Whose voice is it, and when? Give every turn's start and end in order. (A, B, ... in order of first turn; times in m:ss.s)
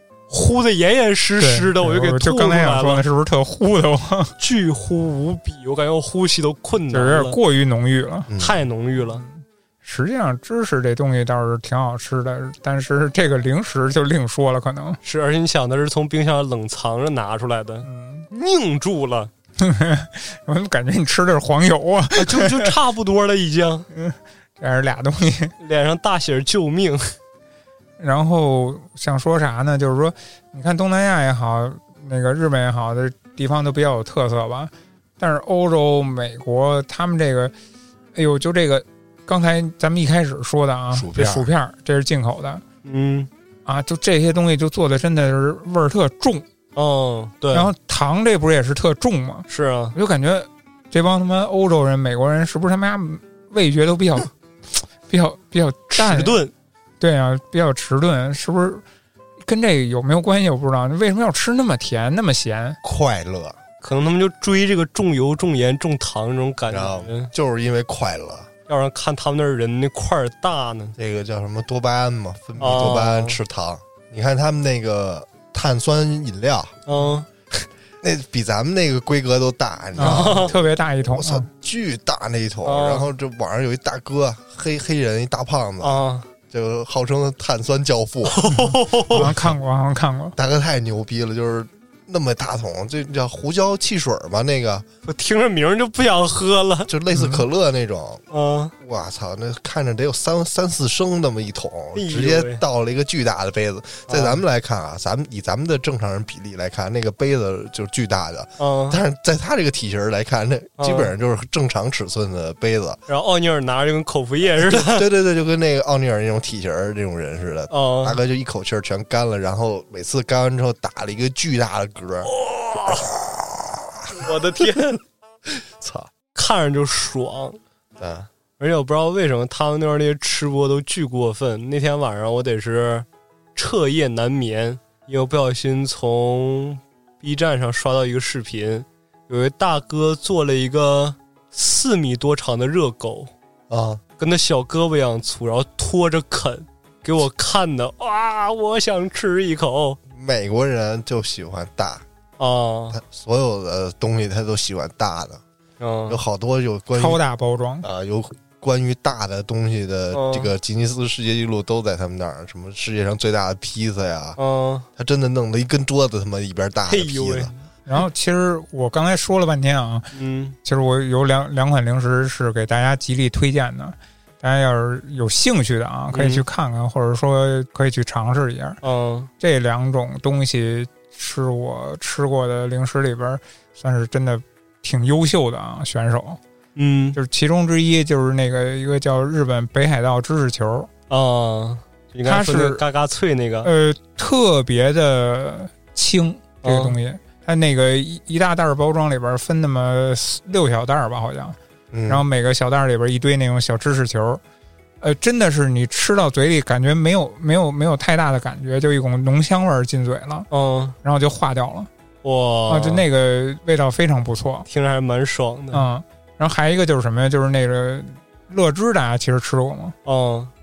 0:00.3-0:03.0 A
0:01.4-0:04.3 B
0:04.4-0:07.4 A
0:06.9-0:08.3 B
0:08.3-0:08.6 C
0:08.4-0:09.2 A
0:09.0-0:15.0 B
0:15.0-0:19.3 A
0:17.8-0:18.3 B
0:19.6-0:22.7 B
0:22.2-0:23.9 A
0:23.9-0:25.5 B
0:25.6-0:27.2 A
0:28.0-0:37.5 B
0:38.2-0:42.6 B
0:40.9-0:41.5 C
0:42.8-0:43.3 A
0:43.7-0:46.4 B
0:46.8-0:47.7 A
0:47.5-0:54.3 B
0:49.5-0:49.9 A
0:55.1-0:56.4 B
0:56.0-0:56.5 A
0:57.0-0:58.8 B
0:59.4-1:02.8 B
1:02.8-1:03.6 C
1:03.8-1:07.3 A
1:06.7-1:08.5 C
1:08.7-1:11.0 A
1:11.0-1:16.8 C
1:12.6-1:13.4 A
1:16.9-1:17.3 A
1:18.0-1:20.6 C
1:20.0-1:21.5 B
1:20.0-1:20.5 A
1:21.1-1:28.4 C
1:22.6-1:23.1 A
1:25.8-1:26.3 A
1:28.3-1:29.4 A
1:28.5-1:30.4 B
1:30.4-1:34.9 C
1:35.0-1:36.9 A
1:36.9-1:38.2 C
1:37.1-1:37.4 B
1:38.3-1:38.7 A
1:38.8-1:53.0 C
1:42.0-1:42.6 A
1:44.1-1:44.4 A
1:48.6-1:49.0 A
1:50.8-1:51.1 A
1:53.1-1:55.1 A
1:54.6-2:02.3 C
1:57.7-1:58.2 A
2:02.3-2:03.1 A
2:02.9-2:04.3 C
2:04.2-2:05.0 A
2:05.5-2:06.1 C
2:06.4-2:07.6 A
2:08.0-2:08.3 C
2:08.6-2:23.3 A
2:23.7-2:24.0 C
2:24.2-2:30.0 A
2:30.1-2:32.0 C
2:32.4-2:33.0 A
2:32.9-2:35.4 C
2:35.8-2:36.2 A
2:36.1-2:37.2 C
2:36.9-2:37.9 B
2:37.8-2:44.4 C
2:40.1-2:40.5 A
2:44.4-2:44.9 A
2:45.0-2:47.5 C
2:46.9-2:47.6 A
2:47.9-2:50.1 B
2:50.1-2:50.6 A
2:50.6-2:58.8 B
2:56.1-2:56.4 A
2:58.8-2:59.3 A
2:59.4-3:06.4 B
3:06.8-3:07.2 A
3:07.2-3:10.9 B
3:11.1-3:13.7 A
3:12.2-3:12.8 B
3:13.6-3:21.6 B
3:16.6-3:17.0 A
3:21.9-3:22.2 C
3:22.1-3:24.4 B
3:25.0-3:30.5 B
3:30.5-3:31.0 A
3:31.0-3:31.9 B
3:32.2-3:33.0 A
3:32.7-3:34.7 B
3:34.7-3:35.9 A
3:35.7-3:40.0 B
3:40.0-3:40.5 A